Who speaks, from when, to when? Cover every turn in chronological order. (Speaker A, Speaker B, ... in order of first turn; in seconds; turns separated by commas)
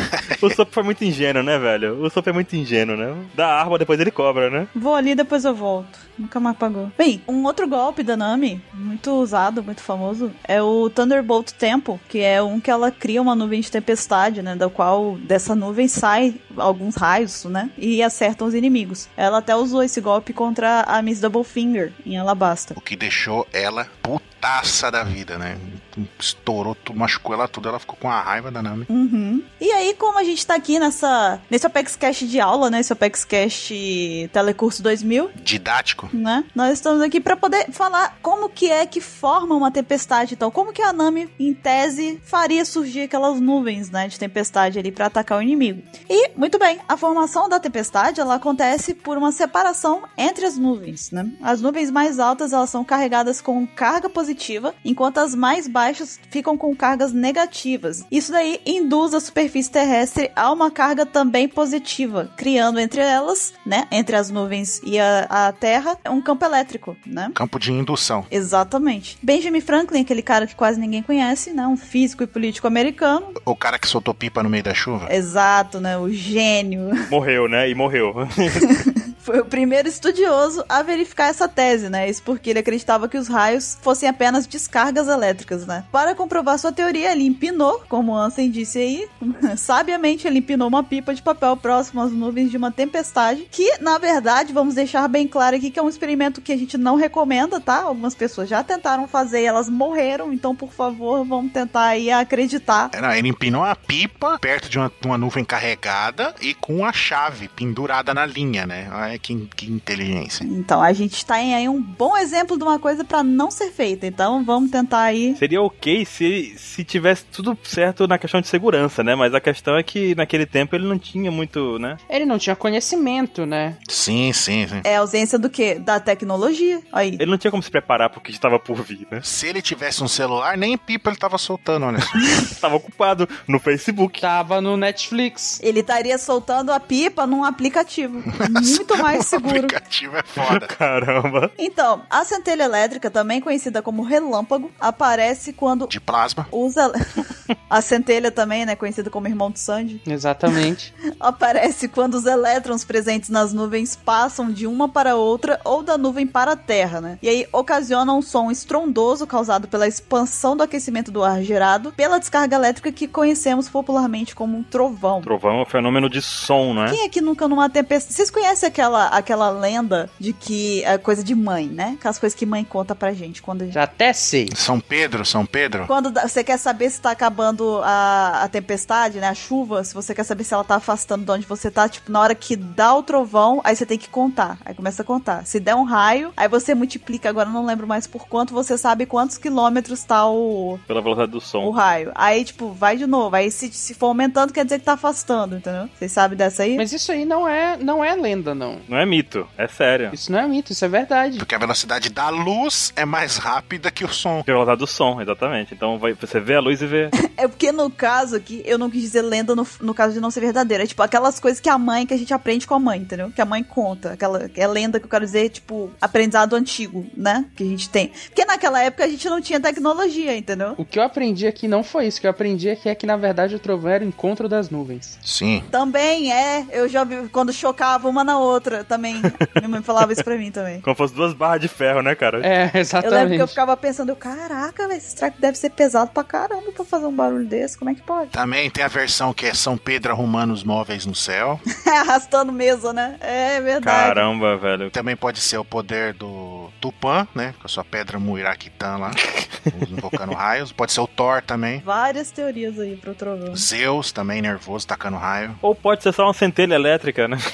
Speaker A: 0.1-0.5, Speaker B: 0.4-4.7, Speaker C: 4.7-22.8, Speaker A: 22.8-28.9, Speaker C: 28.9-35.3, Speaker A: 35.4-36.1, Speaker C: 36.1-67.3, Speaker A: 67.3-68.3, Speaker C: 68.3-73.3, Speaker A: 73.4-75.1, Speaker C: 75.1-77.1, Speaker B: 77.1-78.7, Speaker C: 78.6-102.9, Speaker A: 102.9-110.5, Speaker C: 110.4-115.4, Speaker B: 115.4-122.0, Speaker D: 122.1-123.8, Speaker A: 123.9-124.8, Speaker C: 124.8-127.2, Speaker B: 127.2-129.2, Speaker A: 129.2-132.2, Speaker B: 132.4-134.2, Speaker D: 134.2-135.6, Speaker C: 135.6-139.8, Speaker A: 138.3-140.7, Speaker B: 140.4-141.5, Speaker C: 141.6-145.9, Speaker A: 145.9-146.5, Speaker C: 146.5-146.9, Speaker C: 147.7-150.0, Speaker D: 150.1-150.9, Speaker C: 151.2-165.3, Speaker B: 165.2-167.0, Speaker C: 166.9-173.8, Speaker D: 173.7-174.5, Speaker A: 174.5-175.9, Speaker C: 175.9-190.8, Speaker B: 190.9-191.7, Speaker C: 191.6-196.8, Speaker D: 196.8-198.8, Speaker B: 198.9-200.2, Speaker D: 200.1-201.4, Speaker A: 201.4-204.4, Speaker B: 204.4-207.1, Speaker C: 207.2-220.8, Speaker D: 220.8-225.2, Speaker A: 225.2-225.7, Speaker C: 225.7-230.8, Speaker B: 230.8-232.5, Speaker D: 232.4-233.6, Speaker C: 233.0-238.3, Speaker A: 238.3-241.6, Speaker C: 241.8-244.2, Speaker B: 243.8-244.9, Speaker A: 244.9-251.8, Speaker C: 251.8-253.7, Speaker A: 253.5-255.6, Speaker B: 255.6-257.4